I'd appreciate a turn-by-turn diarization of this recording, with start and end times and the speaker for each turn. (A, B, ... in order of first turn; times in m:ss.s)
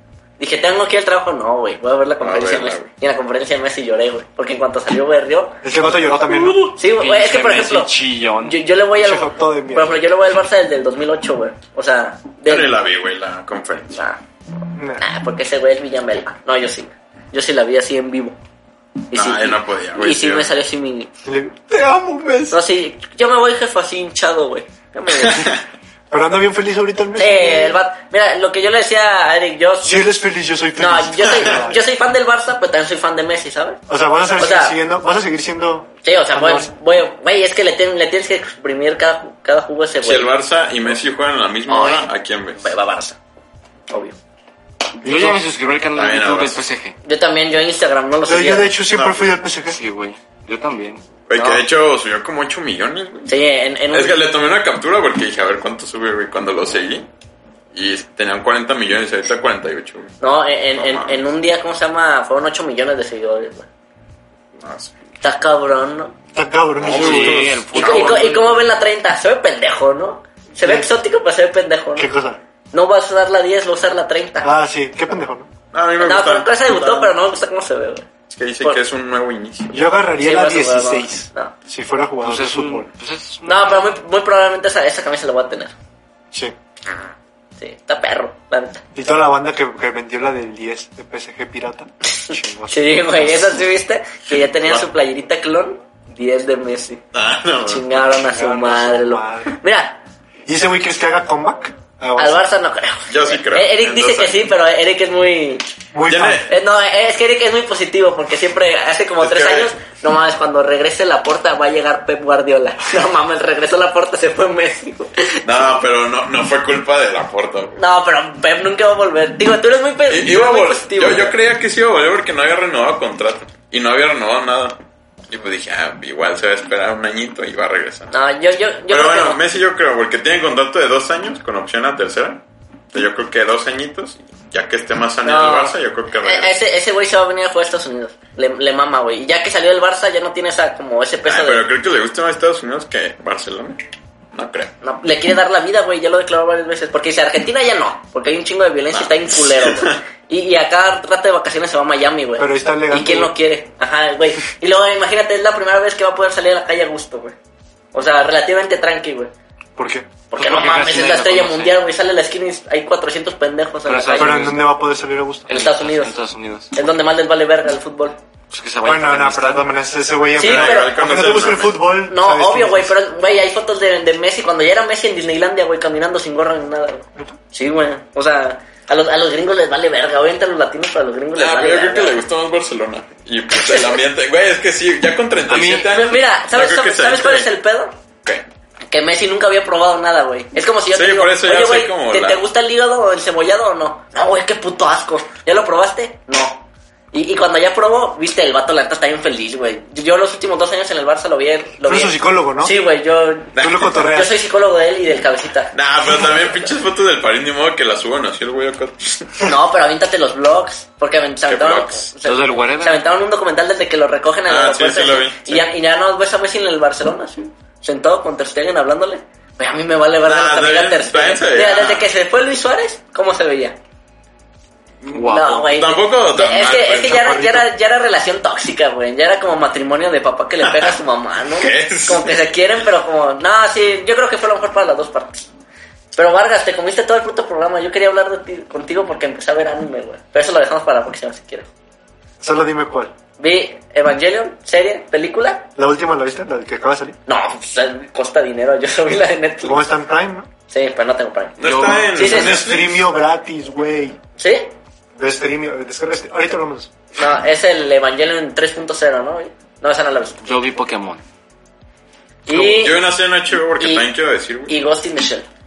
0:00.4-0:05.6 A
0:02.2-0:02.9 B
0:05.6-0:06.7 C
0:06.3-0:12.7 A
0:07.0-0:08.6 D
0:09.0-0:10.0 C
0:12.5-0:14.0 B
0:14.0-0:14.2 A
0:14.8-0:15.0 C
0:15.0-0:18.4 A
0:19.1-0:21.1 A
0:19.1-0:20.5 B
0:21.2-0:22.6 C
0:22.5-0:25.5 A
0:26.1-0:27.8 C
0:27.2-0:30.0 A
0:29.8-0:31.8 C
0:30.8-0:33.8 A
0:33.9-0:36.7 C
0:34.4-0:34.8 A
0:36.0-0:40.3 A
0:40.0-0:42.7 B
0:41.7-0:43.2 A
0:43.9-0:44.2 A
0:45.0-0:45.4 C
0:45.0-0:47.0 D
0:46.0-0:46.6 B
0:47.0-0:48.8 A
0:48.2-0:49.8 C
0:48.9-0:49.4 B
0:49.7-0:51.1 D
0:51.3-0:53.3 B
0:51.3-0:51.6 A
0:53.3-0:54.2 A
0:53.9-0:57.1 B
0:57.7-1:00.2 B
1:00.2-1:03.7 A
1:00.7-1:01.3 B
1:04.6-1:05.0 B
1:05.2-1:06.2 A
1:06.3-1:07.6 C
1:06.8-1:08.3 B
1:06.9-1:08.6 D
1:07.7-1:12.1 A
1:10.6-1:10.9 C
1:12.0-1:12.4 C
1:12.7-1:14.5 A
1:14.4-1:15.5 C
1:15.7-1:17.2 B
1:16.0-1:18.1 A
1:18.3-1:19.9 B
1:19.7-1:22.9 C
1:20.2-1:21.5 A
1:22.2-1:23.9 D
1:23.4-1:25.7 A
1:27.6-1:28.8 A
1:29.0-1:33.6 C
1:32.2-1:37.0 A
1:34.3-1:34.9 B
1:37.1-1:37.9 B
1:37.6-1:40.0 A
1:38.1-1:39.6 C
1:40.5-1:42.5 C
1:42.2-1:45.6 A
1:43.1-1:44.5 B
1:45.9-1:46.5 C
1:46.1-1:46.5 B
1:46.5-1:55.4 A
1:49.2-1:49.7 B
1:55.4-1:57.8 B
1:57.8-2:01.4 A
2:00.1-2:08.1 B
2:08.1-2:09.4 A
2:08.9-2:16.5 B
2:15.2-2:21.7 A
2:21.2-2:23.8 B
2:24.3-2:24.7 B
2:24.8-2:37.4 A
2:28.9-2:30.0 B
2:32.4-2:33.4 C
2:37.9-2:39.3 A
2:39.8-2:40.2 C
2:40.3-2:44.5 A
2:40.4-2:41.8 D
2:43.9-2:44.7 D
2:44.2-2:45.5 C
2:45.5-2:46.2 A
2:45.5-2:46.8 D
2:46.7-2:48.2 A
2:48.5-2:49.7 D
2:48.8-2:53.0 C
2:50.4-2:51.3 A
2:50.4-2:51.8 B
2:52.1-3:02.2 A
3:01.4-3:07.5 B
3:03.6-3:04.0 A
3:05.5-3:05.9 D
3:05.9-3:07.9 A
3:08.9-3:25.7 A
3:10.9-3:12.4 B
3:21.8-3:22.8 C
3:23.6-3:23.9 B
3:23.6-3:24.4 C
3:25.7-3:29.4 B
3:29.4-3:43.8 A
3:31.5-3:32.1 B
3:32.2-3:33.0 D
3:34.5-3:35.7 B
3:40.2-3:42.1 B
3:45.1-3:45.8 D
3:45.2-3:55.5 A
3:45.7-3:47.3 B
3:47.1-3:47.7 C
3:50.6-3:50.9 B
3:51.5-3:52.3 B
3:56.1-4:01.7 A
4:02.4-4:03.1 C
4:03.4-4:05.7 A
4:05.8-4:07.2 C
4:07.3-4:09.8 A
4:09.6-4:10.5 C
4:10.7-4:11.6 A
4:11.6-4:13.0 B
4:11.6-4:12.2 D
4:12.1-4:14.2 C
4:12.1-4:12.6 A
4:14.4-4:14.7 A
4:15.2-4:16.9 C
4:17.2-4:20.4 A
4:20.4-4:21.2 D
4:22.5-4:23.1 A
4:22.5-4:24.8 B
4:23.8-4:24.1 A
4:24.7-4:25.5 A